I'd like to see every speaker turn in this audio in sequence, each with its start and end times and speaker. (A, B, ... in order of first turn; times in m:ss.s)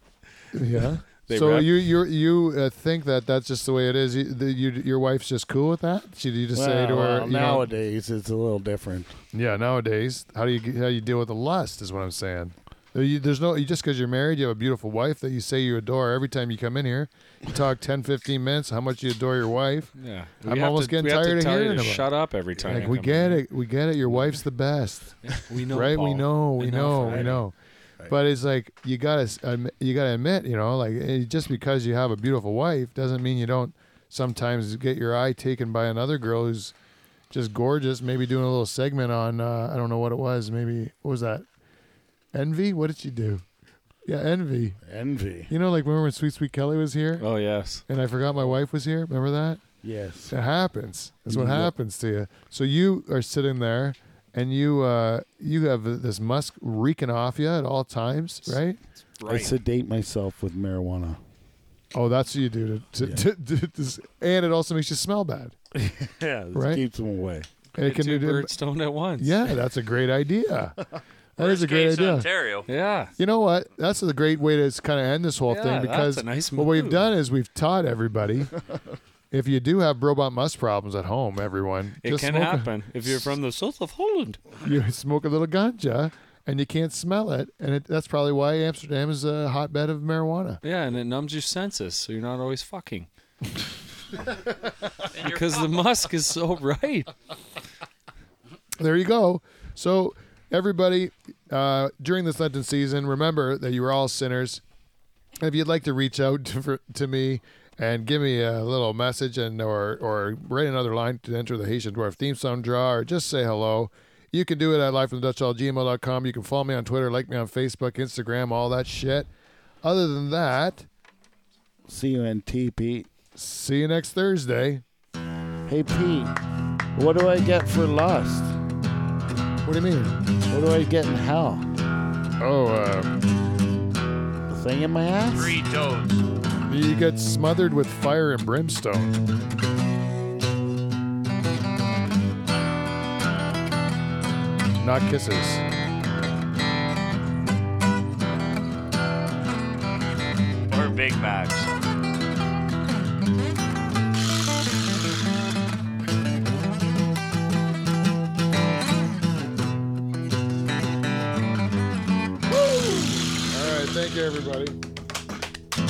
0:00.5-0:07.7 A
0:01.3-0:01.9 B
0:06.5-0:09.2 C
0:09.3-0:22.1 A
0:20.0-0:23.4 B
0:22.6-0:27.5 A
0:25.2-0:27.4 B
0:27.1-0:27.4 C
0:28.1-0:36.7 A
0:37.3-0:41.4 A
0:42.3-0:43.4 A
0:44.1-0:44.8 A
0:44.8-0:45.5 C
0:45.5-0:47.3 A
0:47.2-0:47.8 B
0:47.9-0:49.6 A
0:49.8-0:50.4 C
0:50.3-0:58.8 A
0:51.3-0:51.7 C
0:59.2-0:59.6 B
0:59.2-1:01.2 C
1:01.9-1:05.6 A
1:03.0-1:03.3 C
1:05.8-1:07.5 C
1:06.2-1:06.6 B
1:06.5-1:06.8 A
1:07.8-1:08.5 A
1:07.8-1:09.5 B
1:09.2-1:10.8 A
1:11.4-1:12.3 A
1:11.4-1:12.7 D
1:12.7-1:13.1 B
1:13.2-1:18.5 A
1:15.5-1:17.1 B
1:19.3-1:23.4 A
1:22.0-1:24.4 B
1:24.6-1:30.6 A
1:30.6-1:33.1 B
1:35.1-1:35.9 D
1:35.1-1:37.1 B
1:38.8-1:44.6 A
1:45.4-1:59.3 A
1:59.8-2:00.9 A
2:01.9-2:03.1 C
2:03.4-2:04.8 A
2:05.7-2:06.4 C
2:06.9-2:08.6 C
2:09.6-2:10.2 A
2:10.5-2:11.7 C
2:12.4-2:13.2 A
2:14.5-2:15.6 C
2:15.3-2:16.3 D
2:16.7-2:19.2 A
2:24.8-2:25.6 A
2:30.7-2:31.7 D
2:42.7-2:44.8 A